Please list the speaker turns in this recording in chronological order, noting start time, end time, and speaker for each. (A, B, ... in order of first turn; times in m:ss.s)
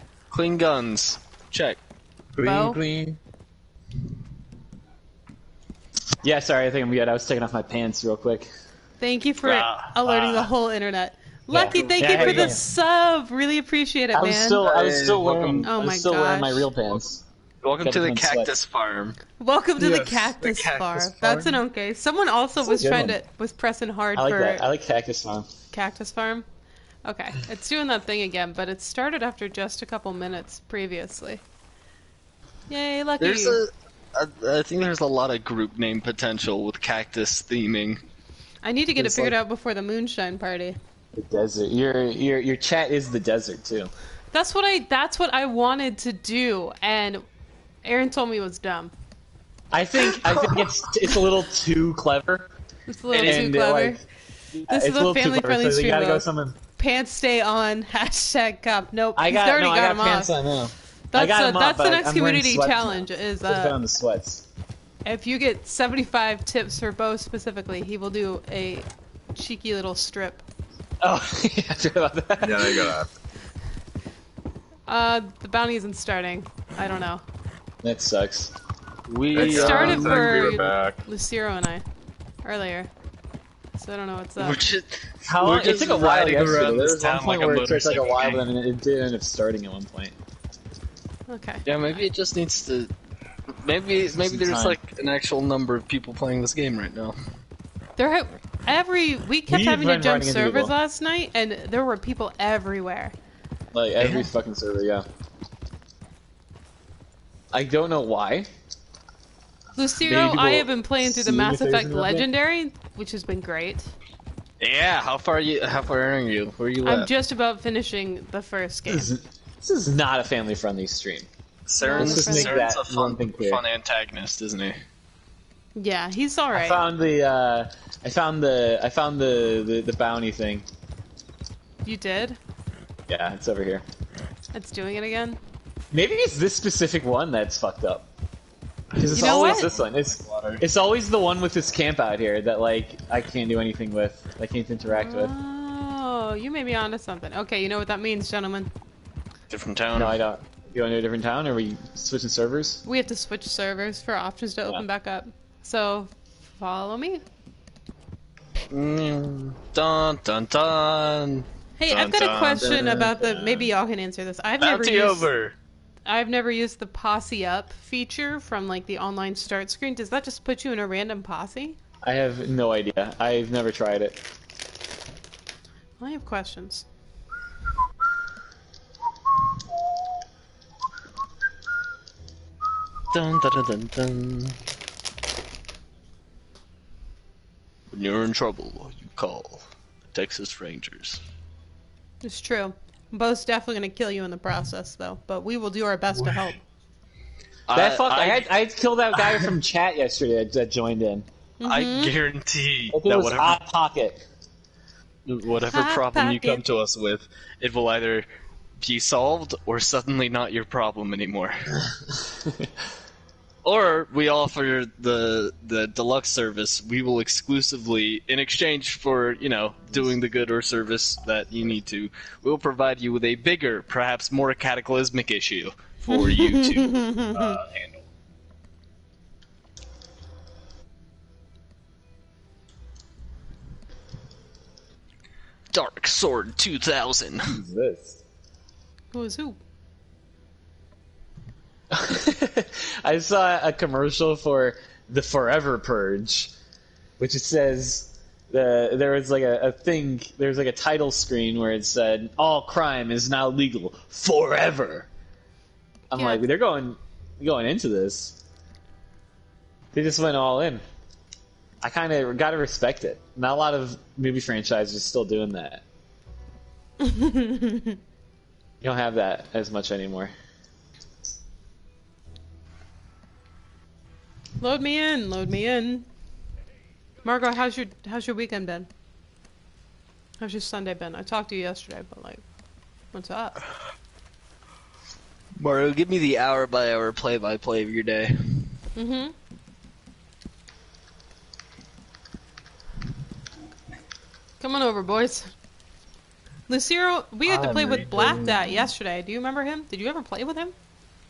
0:00.3-0:01.8 A
0:02.3-0:03.2 B
0:02.4-0:02.8 C
0:06.2-0:08.5 D
0:09.0-0:14.6 C
0:09.4-0:10.5 A
0:11.5-0:12.6 D
0:11.5-0:12.5 A
0:14.1-0:17.2 D
0:14.6-0:15.6 A
0:15.2-0:15.6 B
0:15.6-0:16.7 C
0:17.6-0:19.2 A
0:17.8-0:18.6 D
0:19.4-0:24.6 C
0:19.8-0:20.2 B
0:20.4-0:21.6 A
0:22.6-0:23.2 D
0:24.1-0:25.5 D
0:25.7-0:26.4 C
0:27.0-0:31.4 C
0:32.7-0:33.6 C
0:33.2-0:38.0 A
0:38.6-0:40.8 C
0:39.0-0:39.4 D
0:41.1-0:43.9 D
0:44.3-0:47.2 C
0:47.8-0:48.9 C
0:49.7-0:52.5 D
0:50.1-0:50.9 A
0:52.9-0:54.0 C
0:53.1-0:53.5 A
0:53.2-0:54.0 D
0:54.5-0:56.6 D
0:54.7-0:56.2 C
0:56.8-1:00.3 C
0:59.1-1:04.5 D
1:01.1-1:03.8 C
1:05.0-1:10.4 C
1:11.0-1:13.0 D
1:12.4-1:13.1 B
1:14.9-1:17.2 C
1:17.8-1:18.5 D
1:19.1-1:20.5 A
1:19.3-1:21.0 B
1:19.3-1:21.8 C
1:22.4-1:22.9 C
1:23.8-1:24.6 C
1:24.4-1:28.4 A
1:25.2-1:30.1 D
1:31.3-1:31.6 C
1:31.6-1:32.9 A
1:33.6-1:37.2 A
1:34.2-1:34.8 D
1:38.0-1:43.1 C
1:39.5-1:40.7 D
1:43.7-1:45.0 D
1:44.0-1:44.3 A
1:47.5-1:48.5 D
1:49.8-1:53.9 C
1:50.0-1:52.3 D
1:54.6-1:57.1 A
1:56.8-1:59.1 C
1:58.9-2:01.3 D
2:01.7-2:04.8 A
2:01.8-2:02.6 C
2:01.9-2:03.6 D
2:05.7-2:06.8 C
2:06.5-2:10.6 D
2:11.8-2:12.4 C
2:13.1-2:13.8 D
2:14.5-2:15.4 C
2:15.9-2:18.1 D
2:18.9-2:20.6 A
2:19.0-2:25.3 D
2:19.1-2:19.7 C
2:24.9-2:28.7 C
2:29.5-2:30.2 A
2:29.9-2:32.8 D
2:32.8-2:37.2 C
2:38.7-2:43.1 A
2:41.8-2:45.3 C
2:42.6-2:43.7 D
2:44.6-2:45.5 A
2:46.0-2:51.8 C
2:52.0-2:54.2 D
2:56.0-2:56.8 C
3:03.1-3:04.6 A
3:07.9-3:11.2 A
3:12.2-3:16.6 C
3:17.7-3:18.5 A
3:17.7-3:21.3 D
3:19.2-3:19.5 A
3:21.6-3:22.1 C
3:21.6-3:23.6 A
3:22.9-3:24.2 D
3:25.2-3:28.3 A
3:25.7-3:26.6 C
3:28.8-3:31.7 A
3:33.6-3:48.0 A
3:46.1-3:47.6 C
3:55.7-3:57.6 A
3:57.6-3:58.2 D
3:59.1-3:59.6 C
4:01.9-4:06.5 D
4:07.2-4:15.1 D
4:16.1-4:18.4 D
4:16.1-4:16.5 C
4:19.9-4:20.8 D
4:21.8-4:25.8 D
4:27.0-4:28.0 C
4:28.8-4:30.3 D
4:34.6-4:36.0 C
4:37.2-4:38.9 C
4:40.4-4:42.4 C
4:43.1-4:43.6 C
4:45.6-4:48.7 A
4:49.0-4:49.3 C
4:54.6-4:55.5 C
4:56.7-5:00.7 C
4:57.4-4:58.9 A